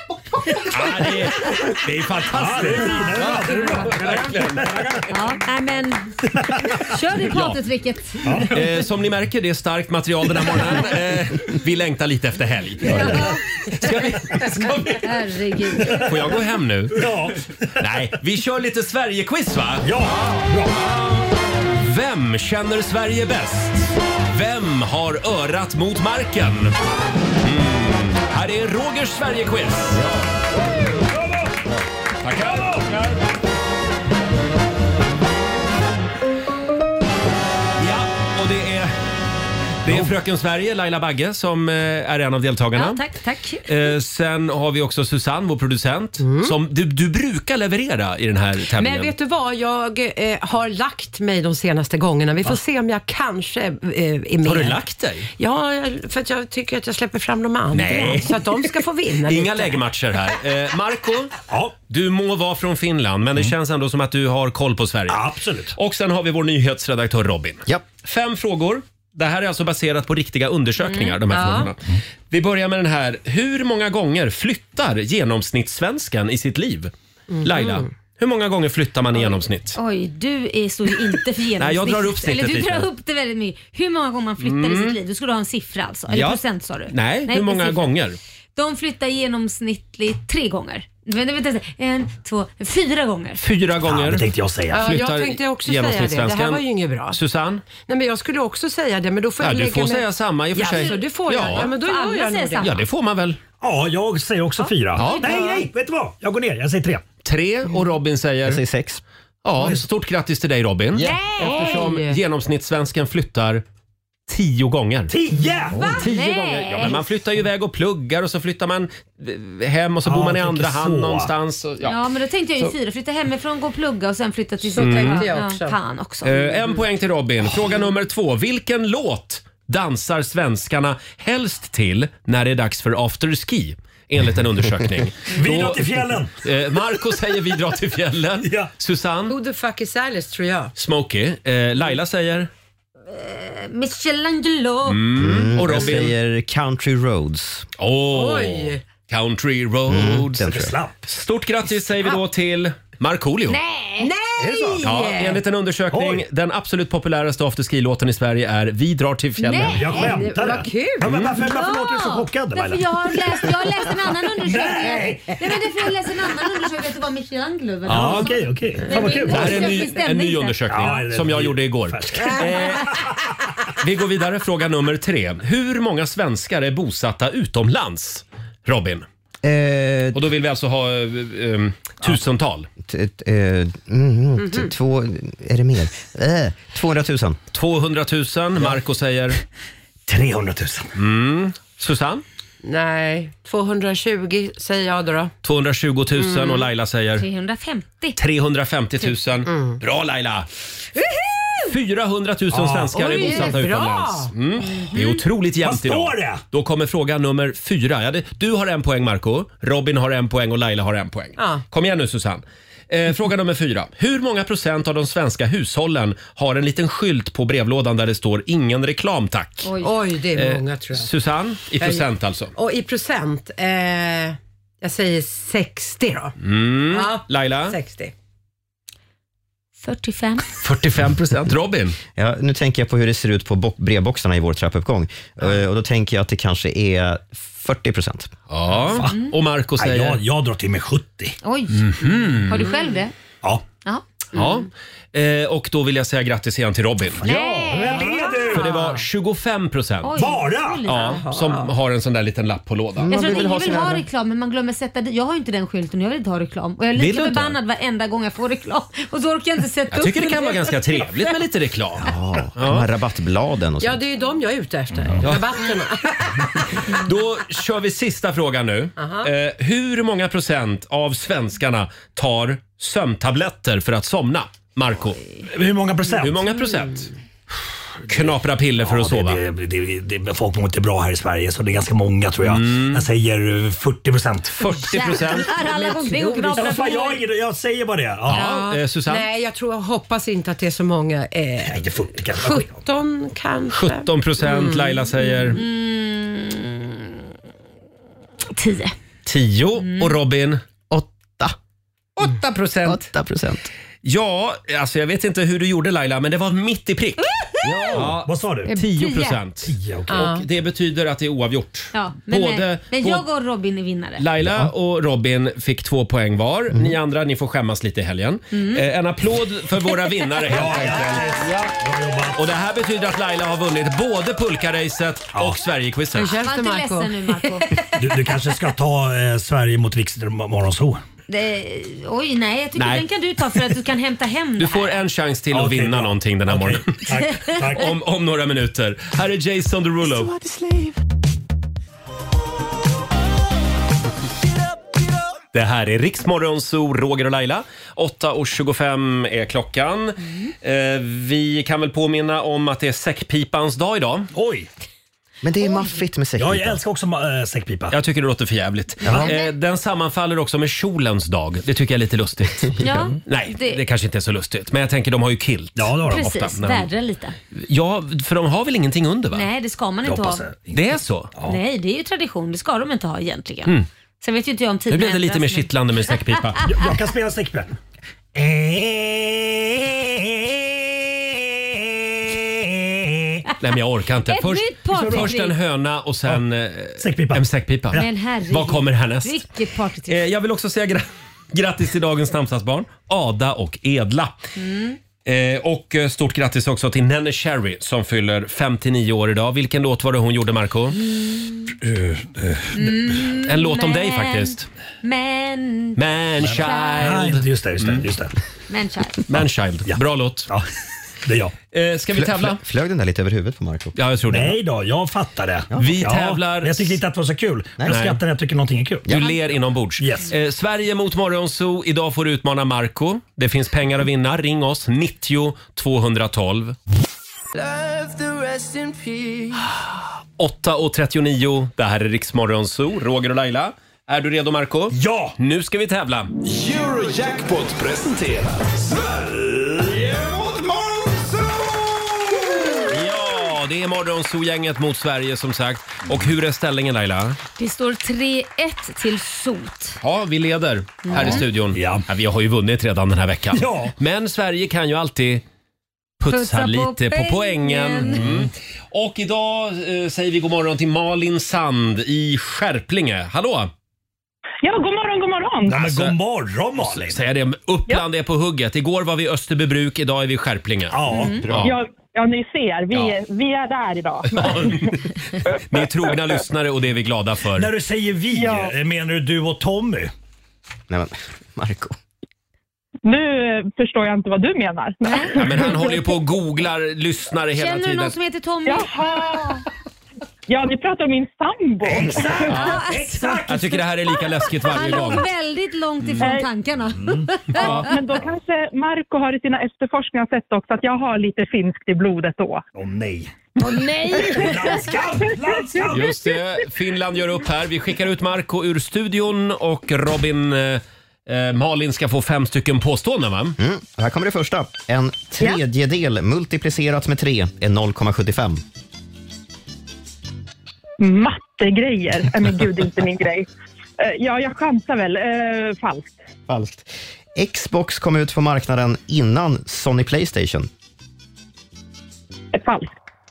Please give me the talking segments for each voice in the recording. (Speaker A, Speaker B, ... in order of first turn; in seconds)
Speaker A: 0.6-5.0, 7.3-7.6, 8.5-15.1, 15.8-17.1, 17.8-20.1, 21.8-26.7, 27.4-30.0, 32.2-33.2, 37.8-38.9, 39.8-43.0, 43.6-49.1, 54.4-55.3, 57.7-71.8, 72.3-76.9, 77.4-79.8, 81.6-82.9, 84.4-85.0, 86.1-88.2, 93.4-97.6, 99.4-101.7, 102.6-103.4, 105.0-105.3, 107.2-108.6, 109.4-113.6, 114.3-115.1, 116.0-122.0, 124.8-125.3, 126.2-139.4, 140.8-142.5, 144.8-146.1, 147.8-150.4, 151.1-153.6, 154.8-160.1, 161.0-161.3, 167.9-168.3, 169.3-173.0, 173.8-179.1, 180.1-182.7, 187.5-189.4, 190.9-192.2, 195.4-197.2, 198.2-200.5, 201.6-219.7, 220.3-222.5, 226.4-227.8, 230.6-232.0, 238.5-240.2, 241.7-242.7, 244.3-247.2, 248.5-250.2, 250.9-253.2, 256.9-257.6, 259.9-262.9, 265.2-265.6, 266.9-275.2, 276.2-277.1, 278.1-279.4, 282.4-283.1, 284.6-285.5, 288.3-289.3, 293.7-295.6, 299.2-300.6, 302.2-303.1, 304.0-307.3, 307.9-313.2, 314.2-321.4, 322.3-326.4, 332.8-333.1, 334.6-337.0, 337.7-340.3, 345.5-354.3, 357.9-362.7, 363.2-366.9, 367.5-369.4, 370.7-371.3, 374.9-376.6, 383.6-389.4, 390.1-394.3, 395.2-401.0, 403.4-404.7, 405.9-408.0, 409.3-410.5, 411.7-412.6, 413.9-414.6, 415.8-417.0, 417.9-418.2, 419.1-426.8, 430.4-436.3, 442.9-447.4, 450.0-455.4, 456.2-463.7, 465.8-466.1, 466.8-471.7, 474.3-477.7, 485.3-488.1, 492.5-492.8, 493.5-495.3, 497.5-497.9, 505.9-513.5
Speaker B: 1.6-5.0, 8.2-8.5, 12.9-13.3, 16.9-17.4, 19.8-20.8, 32.4-32.8, 65.1-65.7, 93.8-94.9, 103.6-107.0, 109.6-109.8, 115.1-116.0, 120.0-121.3, 135.3-136.3, 138.4-138.7, 150.3-150.9, 154.4-154.8, 155.9-156.2, 159.7-163.5, 164.4-165.3, 167.9-169.7, 170.7-173.1, 190.1-190.9, 202.5-203.5, 205.6-206.4, 238.9-239.2, 239.8-241.3, 247.2-248.7, 250.2-250.8, 275.4-276.4, 278.1-284.6, 286.5-288.4, 291.6-292.7, 307.6-308.7, 309.6-310.2, 320.5-322.4, 327.9-331.0, 335.5-337.9, 354.3-354.7, 356.4-357.9, 365.8-366.3, 370.0-371.6, 376.6-377.7, 378.3-383.4, 384.9-385.3, 387.0-388.1, 401.8-402.9, 406.4-408.3, 409.3-410.7, 411.2-411.5, 414.3-419.1, 420.0-420.3, 434.9-435.4, 451.7-452.1, 453.5-453.9, 465.7-467.2, 470.9-471.5, 477.6-480.1, 491.8-493.8, 496.9-497.3, 502.7-503.3, 504.1-506.2
Speaker C: 3.2-3.9, 5.1-8.5, 12.9-13.4, 14.4-16.1, 42.7-43.7, 70.8-71.2, 79.2-87.9, 88.5-93.4, 100.6-102.8, 104.6-105.7, 111.4-111.7, 115.8-117.0, 121.8-126.6, 143.1-145.0, 153.5-154.1, 159.4-160.3, 161.3-171.0, 197.2-198.2, 204.6-205.2, 219.6-219.9, 229.8-230.5, 241.4-243.1, 247.2-248.6, 250.0-251.2, 253.1-261.3, 284.9-287.2, 295.5-297.1, 298.5-298.9, 299.8-300.1, 308.7-309.4, 311.9-314.2, 318.5-318.8, 326.3-327.8, 331.3-334.9, 359.2-359.5, 362.8-363.8, 366.1-367.4, 369.3-370.4, 371.4-375.7, 384.3-385.5, 387.9-390.2, 394.6-395.0, 401.3-401.7, 402.7-406.0, 406.6-407.2, 408.7-409.2, 447.6-450.0, 451.0-451.4, 456.3-458.2, 485.0-485.4, 487.6-489.6, 492.5-493.4, 494.6-497.9, 503.6-504.9
Speaker D: 29.9-30.3, 108.4-109.0, 145.2-147.7, 149.9-150.7, 179.4-180.2, 182.8-187.4, 232.2-238.3, 253.0-254.0, 262.0-264.0, 300.9-301.5, 302.8-303.7, 307.8-308.1, 314.4-314.7, 355.4-356.8, 412.2-413.9, 480.9-482.0, 513.6-518.6, 526.5-530.7
Speaker E: 46.2-46.5, 48.7-54.8, 55.4-59.8, 71.3-71.7, 77.3-77.9, 94.7-97.2, 97.7-102.7, 111.0-112.2, 124.6-125.8, 139.3-140.7, 148.1-148.8, 154.0-155.4, 159.9-161.1, 168.9-169.3, 184.4-184.7, 192.6-195.3, 196.2-196.6, 199.4-199.8, 202.9-204.3, 211.4-211.6, 219.8-221.1, 221.8-226.3, 226.9-228.1, 248.7-249.0, 251.0-251.7, 263.8-266.9, 269.0-269.3, 285.6-286.9, 288.3-294.9, 310.1-310.4, 326.1-327.8
Speaker F: 436.4-443.0
Speaker G: 464.6-465.8, 471.6-474.9, 478.3-478.7, 483.0-485.9, 488.6-489.6, 490.5-492.5, 497.5-502.6, 521.0-523.5, 524.0-526.2, 532.5-532.9